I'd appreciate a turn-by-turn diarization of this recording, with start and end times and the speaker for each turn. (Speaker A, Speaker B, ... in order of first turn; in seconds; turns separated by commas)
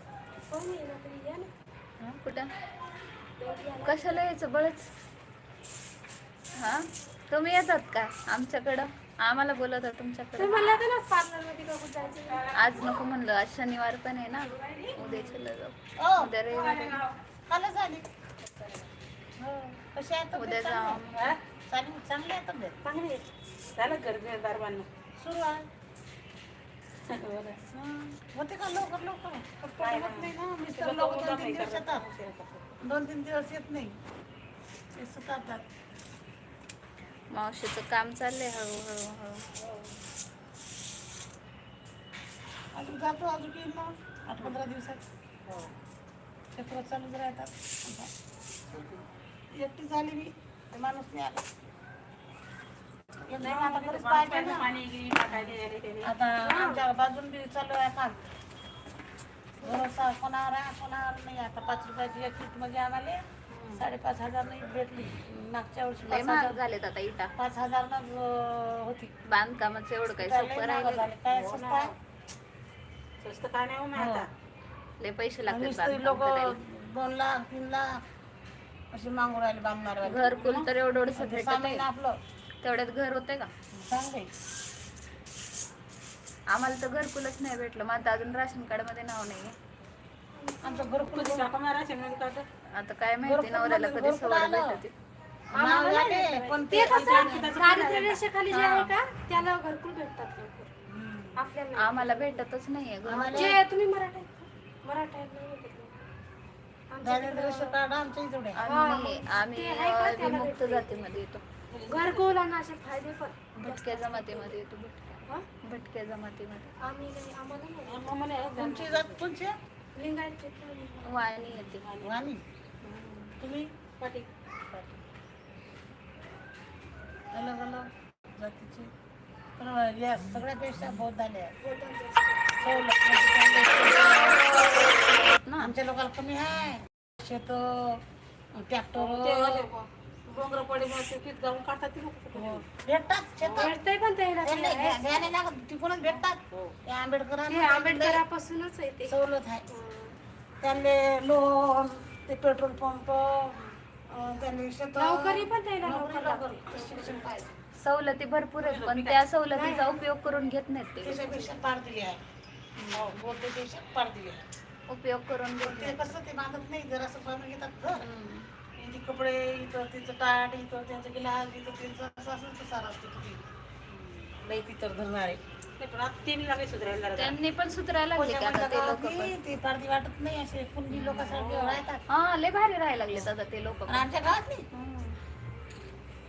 Speaker A: 0.5-1.5, Speaker B: 2.2-2.5, Speaker A: 3.4-4.3, Speaker B: 3.8-4.9, Speaker B: 6.6-10.8, Speaker A: 10.4-12.5, Speaker C: 12.2-13.0, Speaker B: 12.5-17.0, Speaker C: 14.5-15.1, Speaker A: 15.1-15.4, Speaker D: 16.0-16.4, Speaker C: 16.5-17.2, Speaker D: 17.5-18.0, Speaker D: 19.4-22.8, Speaker B: 20.4-21.4, Speaker C: 22.8-23.2, Speaker C: 23.8-24.9, Speaker D: 25.2-25.6, Speaker C: 27.1-27.6, Speaker D: 27.7-32.0, Speaker C: 29.8-32.6, Speaker D: 32.8-34.0, Speaker D: 35.0-35.6, Speaker B: 37.3-39.4, Speaker C: 39.6-39.9, Speaker D: 42.8-45.0, Speaker C: 45.5-45.7, Speaker D: 46.5-48.1, Speaker D: 49.6-51.4, Speaker D: 53.3-54.7, Speaker C: 53.4-56.1, Speaker D: 55.3-58.2, Speaker A: 56.4-56.9, Speaker A: 59.6-59.9, Speaker D: 59.6-63.2, Speaker C: 63.5-63.9, Speaker D: 63.8-66.6, Speaker B: 66.1-67.3, Speaker D: 67.4-69.1, Speaker B: 69.3-71.1, Speaker D: 70.2-71.9, Speaker C: 71.3-72.0, Speaker C: 73.2-74.3, Speaker D: 74.0-74.2, Speaker B: 75.0-76.6, Speaker D: 75.5-77.9, Speaker D: 78.9-80.3, Speaker B: 80.0-81.8, Speaker C: 80.3-80.7, Speaker D: 81.2-82.2, Speaker B: 82.6-83.5, Speaker D: 83.7-84.3, Speaker B: 86.5-89.5, Speaker A: 90.4-91.1, Speaker D: 90.6-91.5, Speaker C: 91.1-92.5, Speaker B: 92.8-94.9, Speaker D: 93.2-94.8, Speaker D: 95.5-97.7, Speaker A: 95.6-100.7, Speaker C: 97.0-98.2, Speaker B: 98.5-98.9, Speaker D: 100.9-101.4, Speaker A: 101.3-102.4, Speaker B: 101.8-103.6, Speaker D: 103.0-103.6, Speaker A: 103.3-106.0, Speaker A: 106.9-107.8, Speaker D: 107.0-108.6, Speaker B: 108.6-111.4, Speaker A: 108.6-111.2, Speaker C: 111.7-112.3, Speaker A: 111.9-114.6, Speaker B: 113.6-116.7, Speaker A: 116.8-118.7, Speaker C: 117.9-119.2, Speaker D: 118.6-119.5, Speaker A: 120.0-121.3, Speaker B: 121.0-121.8, Speaker C: 121.7-122.2, Speaker D: 122.0-122.4, Speaker C: 122.9-123.3, Speaker D: 123.4-123.7, Speaker C: 124.0-124.3, Speaker D: 127.3-128.9, Speaker D: 129.6-131.6, Speaker A: 131.6-133.2, Speaker D: 132.6-135.0, Speaker B: 135.2-135.7, Speaker D: 135.6-138.0, Speaker D: 138.6-139.7, Speaker C: 139.0-142.7, Speaker D: 142.3-143.7, Speaker A: 143.5-145.3, Speaker D: 144.4-148.2, Speaker A: 147.4-149.2, Speaker D: 149.1-149.7, Speaker A: 149.7-150.2, Speaker D: 150.6-157.5, Speaker A: 154.9-157.5, Speaker B: 157.8-161.5, Speaker C: 158.6-159.2, Speaker A: 159.5-160.0, Speaker D: 161.0-162.2, Speaker B: 162.8-163.1, Speaker C: 162.9-163.2, Speaker D: 163.1-164.4, Speaker B: 164.9-166.2, Speaker D: 165.6-168.0, Speaker B: 167.9-168.5, Speaker D: 168.8-173.4, Speaker C: 173.9-174.3, Speaker D: 174.4-175.4, Speaker C: 175.8-177.4, Speaker B: 177.2-179.4, Speaker D: 178.2-182.0, Speaker B: 180.9-181.4, Speaker C: 181.3-181.8, Speaker B: 182.1-184.1, Speaker D: 183.9-184.7, Speaker B: 184.7-185.2